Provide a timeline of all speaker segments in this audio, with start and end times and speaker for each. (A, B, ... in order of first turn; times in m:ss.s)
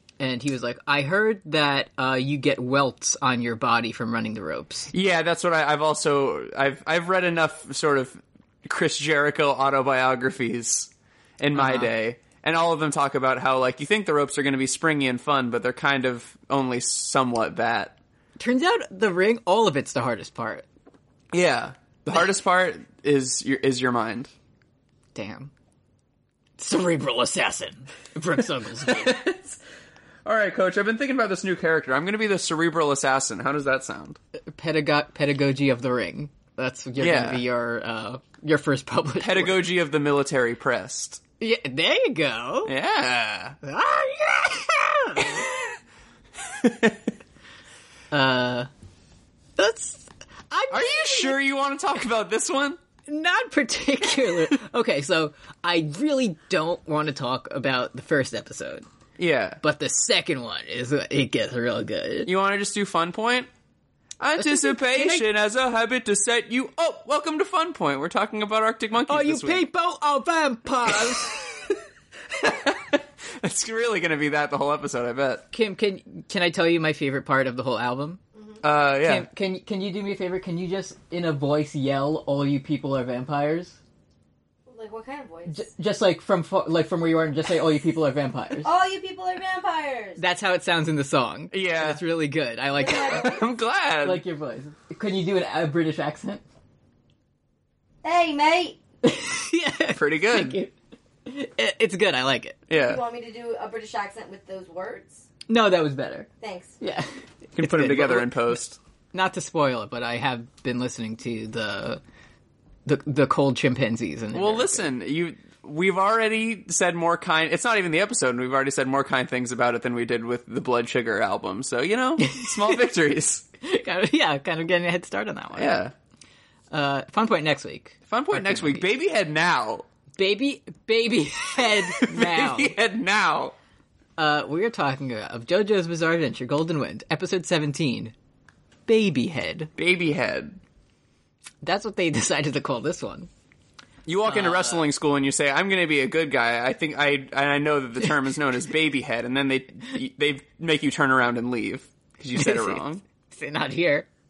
0:00.2-0:04.9 A
0:04.9-0:18.0 B
0:11.5-0:11.9 A
0:18.4-0:20.7 A
0:21.3-0:24.3 B
0:25.2-0:25.5 A
0:26.6-0:29.2 A
0:28.8-0:29.6 B
0:30.2-0:34.2 B
0:34.5-0:39.6 A
0:37.0-0:37.4 B
0:39.2-0:41.2 B
0:41.4-0:42.7 A
0:42.6-0:43.6 B
0:43.6-0:45.5 A
0:45.2-0:45.5 B
0:46.6-0:47.0 B
0:48.1-0:48.7 A
0:49.6-0:51.4 A
0:50.7-0:52.8 B
0:53.1-0:58.8 A
0:59.2-0:59.6 B
0:59.6-1:02.3 A
1:02.3-1:03.5 B
1:04.2-1:09.6 B
1:04.4-1:05.3 A
1:09.1-1:11.4 A
1:12.4-1:15.4 B
1:15.5-1:18.2 A
1:18.6-1:19.3 B
1:19.0-1:23.8 A
1:24.7-1:25.7 C
1:25.5-1:28.7 A
1:28.6-1:30.2 C
1:30.2-1:33.4 A
1:31.5-1:32.0 B
1:32.8-1:33.4 C
1:33.1-1:34.2 B
1:34.0-1:36.4 A
1:38.0-1:38.8 C
1:39.0-1:40.7 A
1:40.0-1:40.6 B
1:41.3-1:42.6 A
1:42.7-1:43.0 B
1:42.8-1:45.3 C
1:45.5-1:46.3 A
1:46.4-1:46.8 C
1:46.8-1:48.6 A
1:47.6-1:48.8 B
1:49.1-1:52.0 A
1:52.9-1:54.9 A
1:54.3-2:03.5 B
2:02.2-2:02.8 A
2:03.6-2:05.8 A
2:05.6-2:05.9 B
2:06.7-2:08.8 A
2:08.1-2:09.8 B
2:10.2-2:12.8 A
2:12.0-2:13.6 B
2:14.2-2:18.1 A
2:18.9-2:19.7 A
2:19.8-2:20.6 B
2:21.6-2:23.3 A
2:24.1-2:33.0 B
2:24.2-2:24.9 A
2:32.4-2:32.8 A
2:33.3-2:34.1 A